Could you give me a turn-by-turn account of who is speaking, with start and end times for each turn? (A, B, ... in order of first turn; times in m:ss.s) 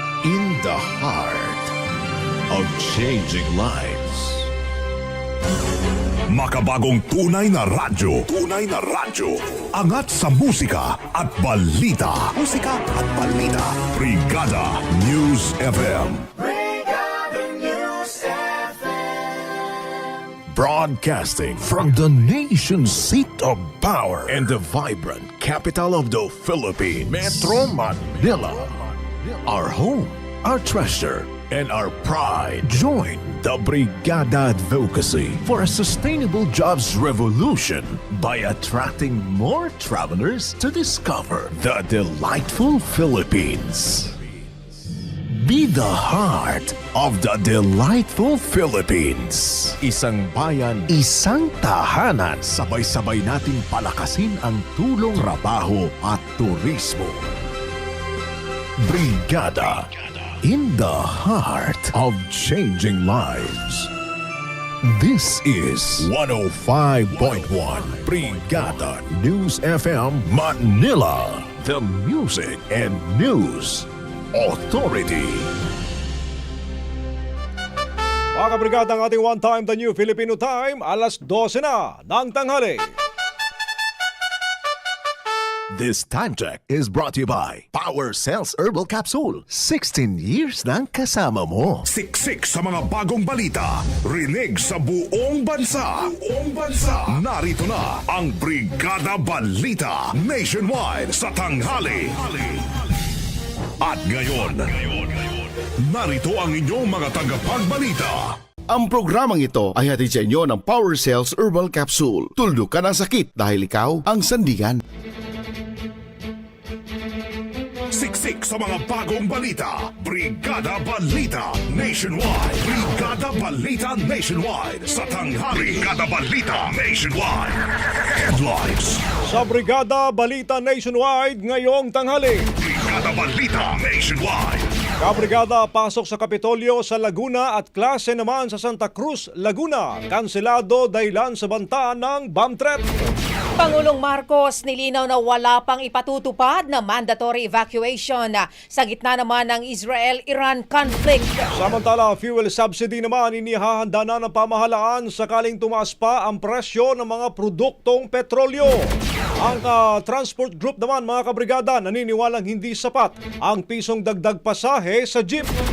0:00.2-0:01.7 A
0:02.5-0:04.5 A
0:06.3-0:16.3 B
0:20.5-0:44.3 A
0:45.2-0:57.2 A
0:58.8-0:59.9 A
1:00.4-1:03.9 A
1:04.8-1:15.5 A
1:18.4-1:22.8 C
1:25.7-1:31.8 A
1:31.8-1:42.6 B
1:43.8-1:48.3 B
1:48.7-1:54.8 D
1:57.9-2:09.0 B
2:09.3-2:12.4 C
2:12.6-2:14.7 B
2:15.0-2:22.9 C
2:23.6-2:31.5 E
2:31.6-2:45.5 C